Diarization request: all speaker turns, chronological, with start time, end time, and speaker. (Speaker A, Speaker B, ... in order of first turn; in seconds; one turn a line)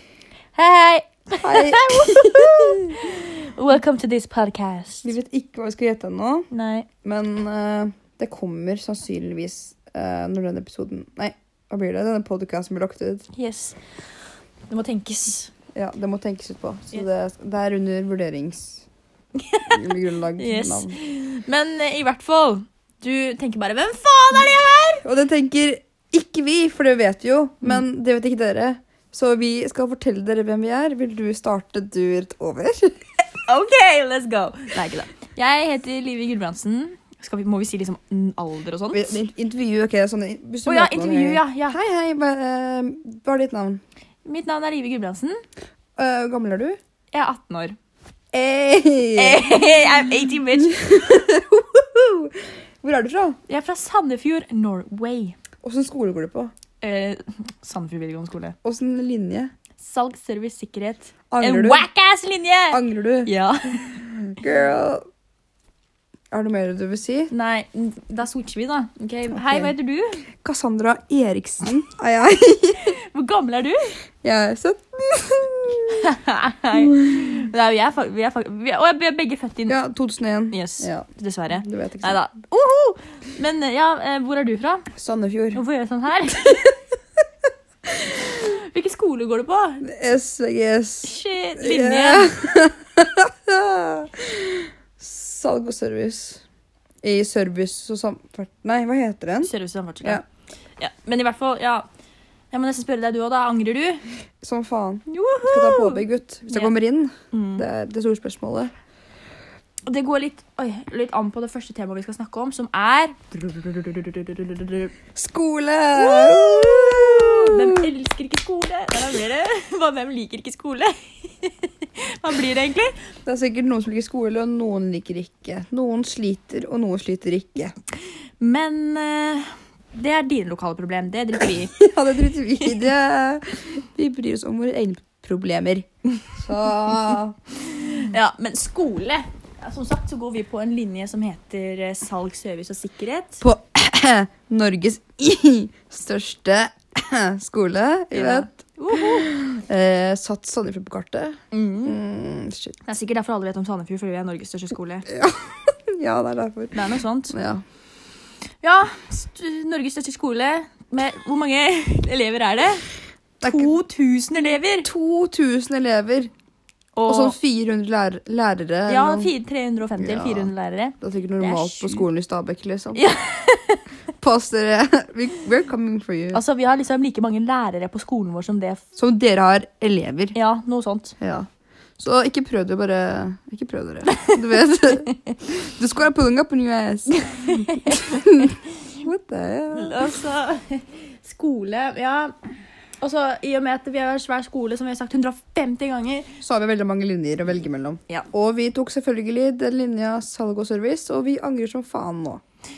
Speaker A: 0.6-5.1
Speaker B: 1.4-3.0
Speaker B: 5.0-6.5
Speaker A: 6.5-6.9
Speaker B: 7.0-13.3
Speaker A: 13.3-13.8
Speaker A: 14.7-15.5
Speaker B: 15.7-18.9
Speaker A: 19.4-19.8
Speaker B: 19.7-21.0
Speaker A: 20.4-25.0
Speaker B: 25.0-33.1
Speaker A: 33.5-39.1
Speaker B: 38.9-43.8
Speaker A: 40.6-41.8
Speaker A: 44.2-45.4
Speaker B: 46.0-46.8
Speaker A: 47.1-47.8
Speaker B: 48.3-49.8
Speaker A: 49.2-51.1
Speaker B: 50.5-53.4
Speaker A: 53.5-55.4
Speaker B: 55.6-56.5
Speaker A: 56.8-58.6
Speaker B: 58.6-59.5
Speaker A: 59.8-64.0
Speaker B: 61.3-61.8
Speaker B: 62.7-63.3
Speaker B: 63.8-65.0
Speaker B: 66.3-67.3
Speaker A: 67.3-70.3
Speaker B: 69.3-69.7
Speaker B: 70.4-73.0
Speaker A: 72.8-74.0
Speaker B: 74.2-76.1
Speaker A: 76.0-79.8
Speaker B: 76.8-77.4
Speaker B: 79.7-82.2
Speaker A: 80.5-84.9
Speaker B: 84.9-85.6
Speaker A: 85.5-86.8
Speaker A: 88.0-89.8
Speaker B: 89.8-96.4
Speaker A: 91.0-92.3
Speaker B: 97.0-99.5
Speaker A: 99.4-100.2
Speaker A: 100.8-101.9
Speaker A: 102.5-104.0
Speaker B: 104.4-108.7
Speaker A: 105.1-106.8
Speaker A: 107.3-107.7
Speaker A: 109.9-115.0
Speaker B: 115.2-117.9
Speaker A: 115.9-123.0
Speaker B: 123.3-127.7
Speaker A: 128.4-131.8
Speaker B: 131.7-137.4
Speaker A: 137.6-143.4
Speaker B: 143.4-152.8
Speaker A: 148.1-149.3
Speaker A: 151.5-152.0
Speaker A: 152.8-155.1
Speaker B: 155.1-157.6
Speaker A: 156.7-157.3
Speaker A: 158.6-162.9
Speaker B: 163.4-163.7
Speaker A: 163.4-164.9
Speaker B: 164.8-166.3
Speaker A: 167.0-167.4
Speaker B: 167.1-169.3
Speaker A: 168.9-172.0
Speaker B: 170.0-173.0
Speaker A: 172.9-173.8
Speaker B: 174.2-176.4
Speaker A: 176.3-178.8
Speaker B: 178.9-180.4
Speaker A: 180.3-181.2
Speaker B: 181.2-190.1
Speaker A: 184.1-184.4
Speaker A: 187.1-188.3
Speaker A: 189.7-192.4
Speaker A: 193.0-196.3
Speaker B: 196.4-202.4